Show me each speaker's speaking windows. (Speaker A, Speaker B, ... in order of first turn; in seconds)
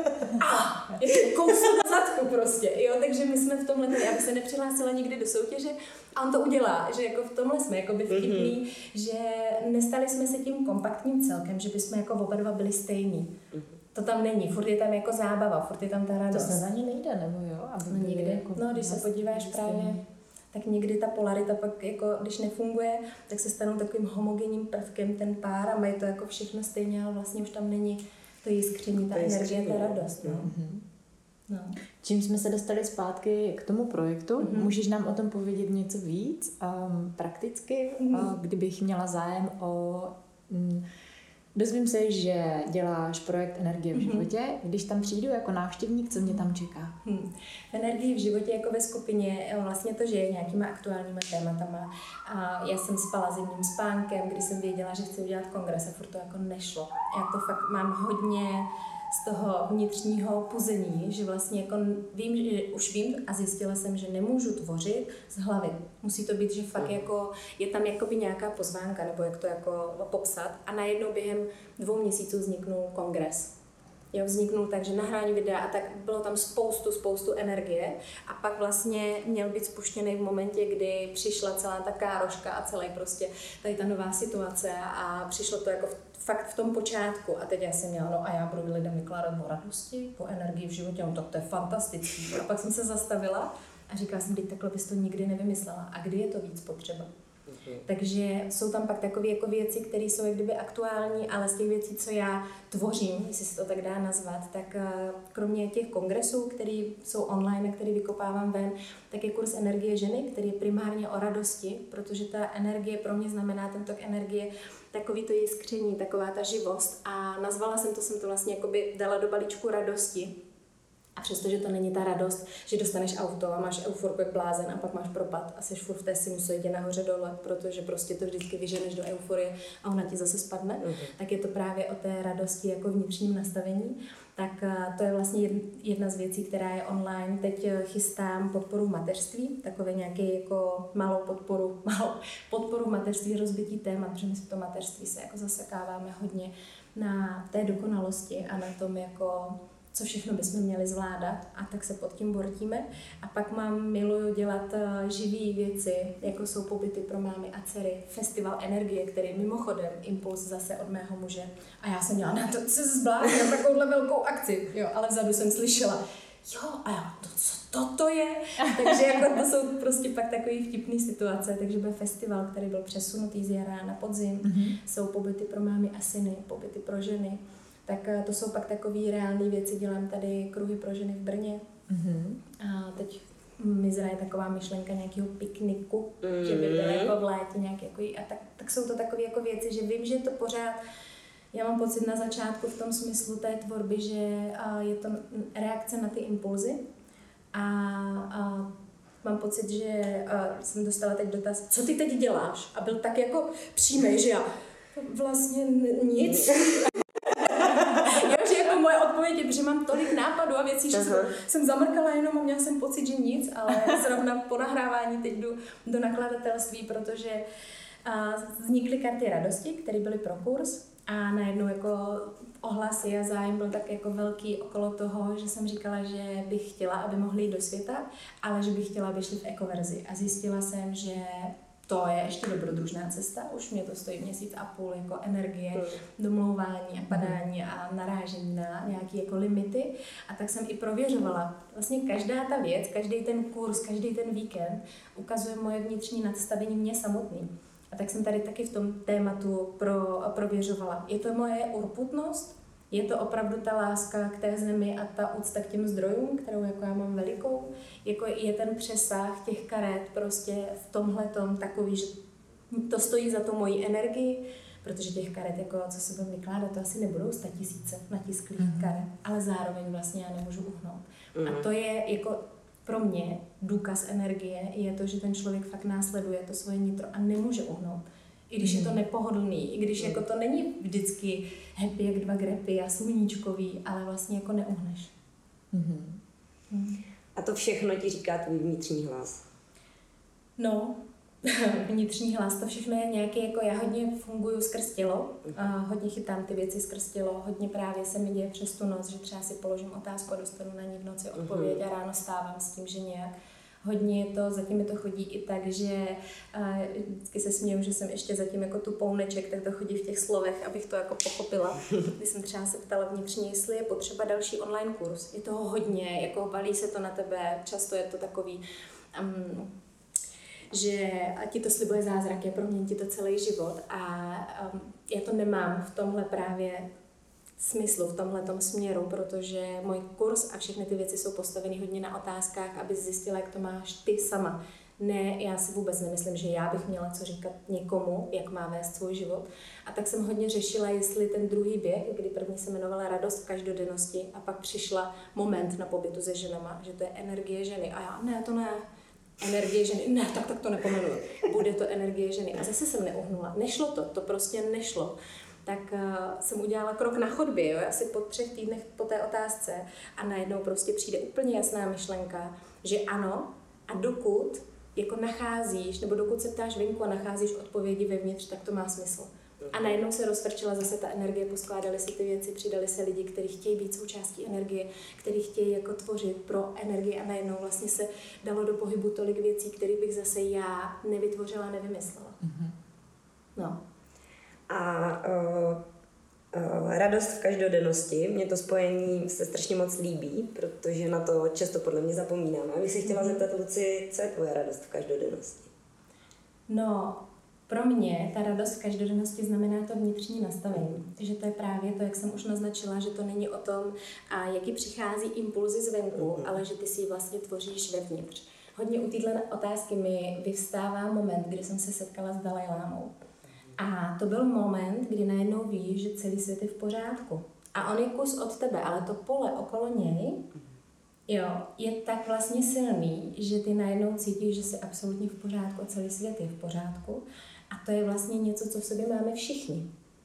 Speaker A: 0.3-13.3, 13.9-16.6, 17.9-20.0, 20.5-30.8, 31.5-31.8, 34.4-34.7, 38.0-38.3, 43.9-44.2, 47.0-73.5, 74.1-97.1, 97.8-120.4, 121.2-181.7, 182.5-190.8, 191.5-196.8, 197.5-217.4, 218.0-262.1, 262.7-285.1, 286.7-287.0, 290.6-303.3, 303.8-318.6, 319.1-319.7, 320.7-326.9, 327.6-348.8, 349.4-382.4, 393.1-393.4, 396.7-413.1, 413.8-420.4, 421.3-429.9
Speaker B: 8.1-8.5, 29.1-30.4, 97.5-97.8, 130.8-131.1, 186.2-187.1, 210.9-211.3, 271.4-271.6, 287.4-289.4, 301.4-301.8, 384.7-385.8, 386.5-395.7
Speaker C: 16.3-20.0, 30.4-30.8, 32.0-40.9, 41.5-46.9, 174.4-174.8, 181.9-182.4, 268.6-269.0, 278.6-278.9, 285.7-286.2, 382.4-382.7